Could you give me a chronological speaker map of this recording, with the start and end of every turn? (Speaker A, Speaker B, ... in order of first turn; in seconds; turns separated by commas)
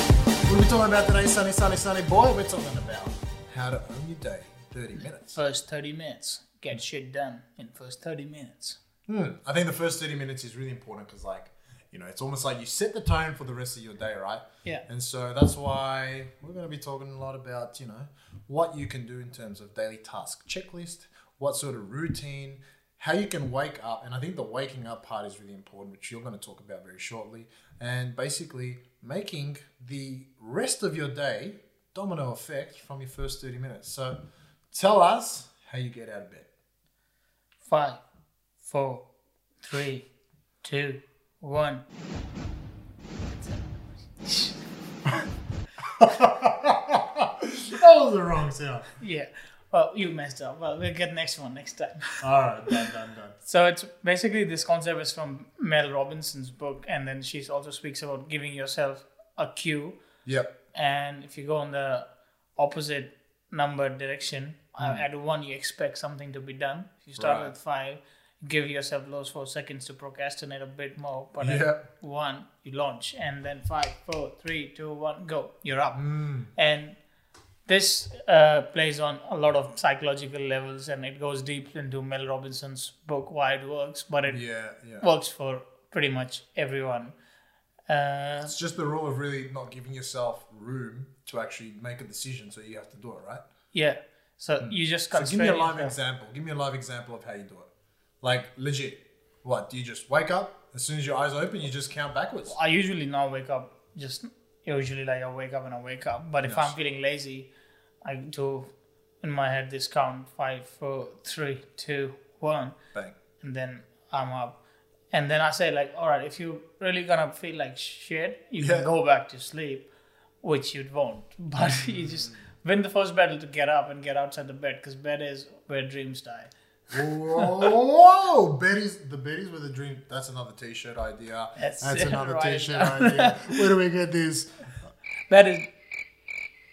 Speaker A: 0.5-5.4, Speaker B: 5.1-8.8, Speaker A: 9.1-34.2, Speaker A: 34.7-36.5, Speaker B: 37.7-38.0, Speaker B: 38.6-39.0, Speaker B: 39.6-40.1, Speaker B: 40.6-41.8, Speaker B: 43.3-44.6, Speaker A: 46.0-48.9, Speaker B: 49.0-52.2, Speaker A: 52.2-53.4, Speaker B: 53.4-60.0, Speaker B: 60.7-62.1, Speaker B: 62.6-77.0, Speaker A: 64.8-65.0, Speaker A: 67.2-67.5, Speaker A: 71.4-71.8, Speaker A: 75.9-76.5, Speaker B: 77.7-87.2, Speaker A: 84.3-85.1, Speaker B: 87.9-88.5, Speaker A: 88.4-93.4, Speaker B: 93.7-96.0, Speaker A: 94.6-97.7, Speaker A: 98.2-102.6, Speaker B: 102.5-107.5, Speaker A: 106.4-106.8, Speaker B: 108.0-108.7, Speaker B: 109.2-112.8, Speaker B: 113.4-114.6, Speaker B: 115.1-119.9, Speaker A: 118.6-118.9, Speaker B: 120.4-126.5, Speaker A: 121.7-122.4, Speaker A: 126.9-134.6, Speaker B: 127.3-127.7, Speaker B: 131.6-133.6, Speaker B: 135.3-135.7